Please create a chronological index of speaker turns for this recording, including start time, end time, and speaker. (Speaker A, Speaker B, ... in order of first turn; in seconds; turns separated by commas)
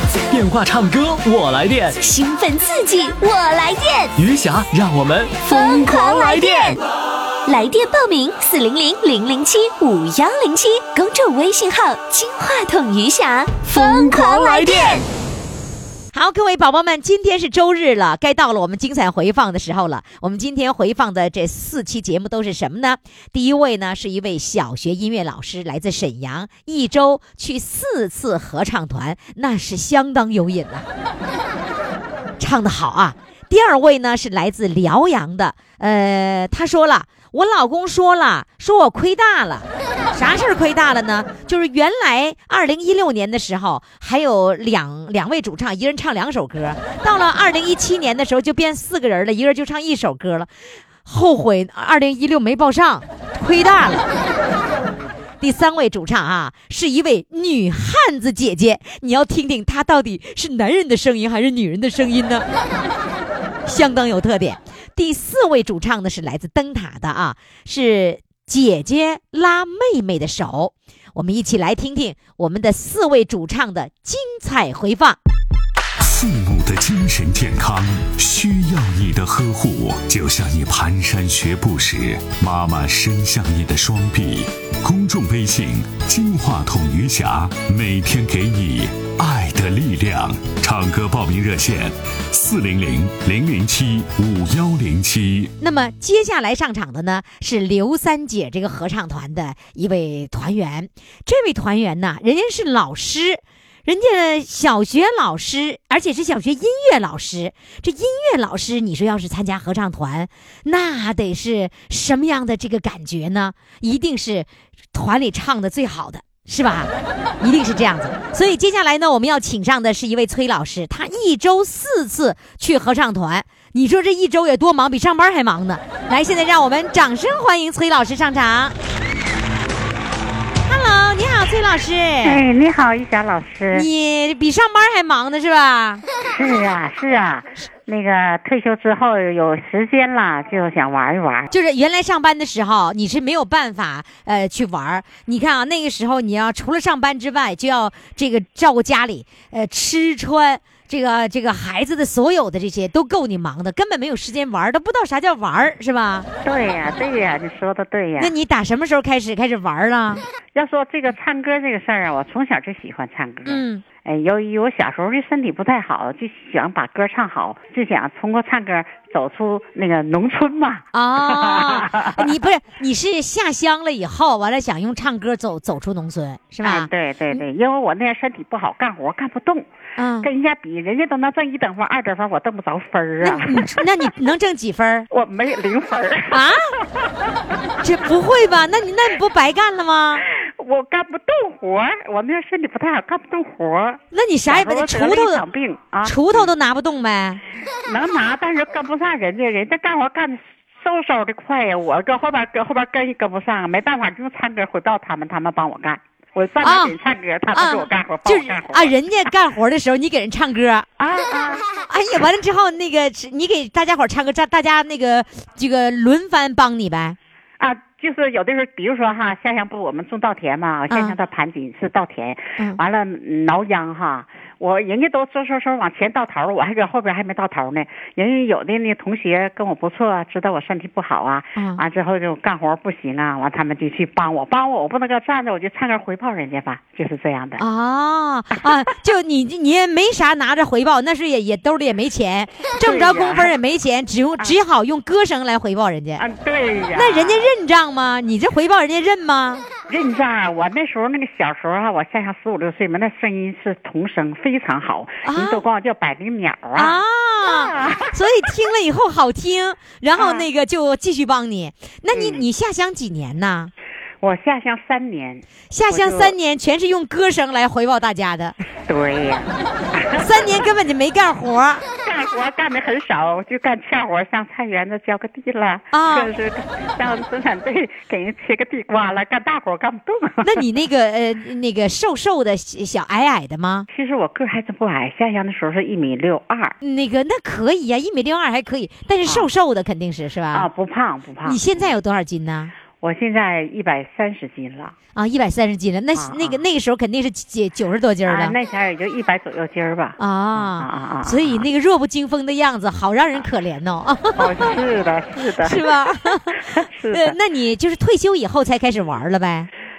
Speaker A: 0.3-2.0, Speaker B: 2.0-4.2, Speaker A: 4.2-5.4, Speaker B: 5.4-6.8, Speaker B: 7.5-15.1, Speaker A: 13.8-14.8, Speaker C: 16.1-30.9, Speaker C: 32.4-50.5, Speaker C: 51.0-54.1, Speaker C: 55.4-62.5, Speaker C: 63.6-75.2, Speaker D: 76.0-95.5, Speaker C: 95.6-128.8, Speaker C: 130.6-132.4, Speaker E: 132.2-133.9, Speaker C: 133.7-136.0, Speaker E: 136.2-141.5, Speaker C: 141.5-156.3, Speaker E: 156.4-158.3, Speaker C: 158.2-160.2, Speaker E: 160.5-172.3, Speaker C: 163.4-163.8, Speaker C: 170.9-177.4, Speaker E: 176.6-179.7, Speaker C: 180.0-180.3, Speaker E: 180.2-183.8, Speaker C: 183.2-185.1, Speaker E: 185.1-187.3, Speaker C: 186.3-186.7, Speaker C: 187.8-190.2, Speaker E: 190.3-196.5, Speaker C: 194.1-195.4, Speaker C: 196.0-197.4, Speaker E: 197.9-208.9, Speaker C: 206.6-206.9, Speaker C: 207.5-210.9, Speaker E: 211.0-211.7, Speaker C: 211.9-217.2, Speaker E: 217.6-237.6, Speaker C: 220.9-221.2, Speaker C: 231.6-231.8, Speaker C: 237.6-246.2, Speaker E: 242.8-243.5, Speaker E: 246.2-247.4, Speaker C: 246.9-249.7, Speaker E: 249.9-258.1, Speaker C: 255.2-255.6, Speaker C: 256.7-263.7, Speaker E: 260.1-260.5, Speaker E: 262.1-262.4, Speaker E: 264.2-266.3, Speaker C: 265.7-268.6, Speaker E: 268.9-270.6, Speaker C: 270.2-271.8, Speaker E: 272.0-280.6, Speaker C: 275.9-276.3, Speaker C: 280.4-283.9, Speaker E: 283.9-286.8, Speaker C: 286.8-290.7, Speaker E: 289.2-289.5, Speaker E: 290.5-291.9, Speaker C: 291.4-292.7, Speaker E: 293.0-294.9, Speaker C: 295.1-298.6, Speaker E: 296.1-296.6, Speaker E: 298.2-301.6, Speaker C: 300.2-304.7, Speaker E: 304.4-307.4, Speaker C: 305.6-309.7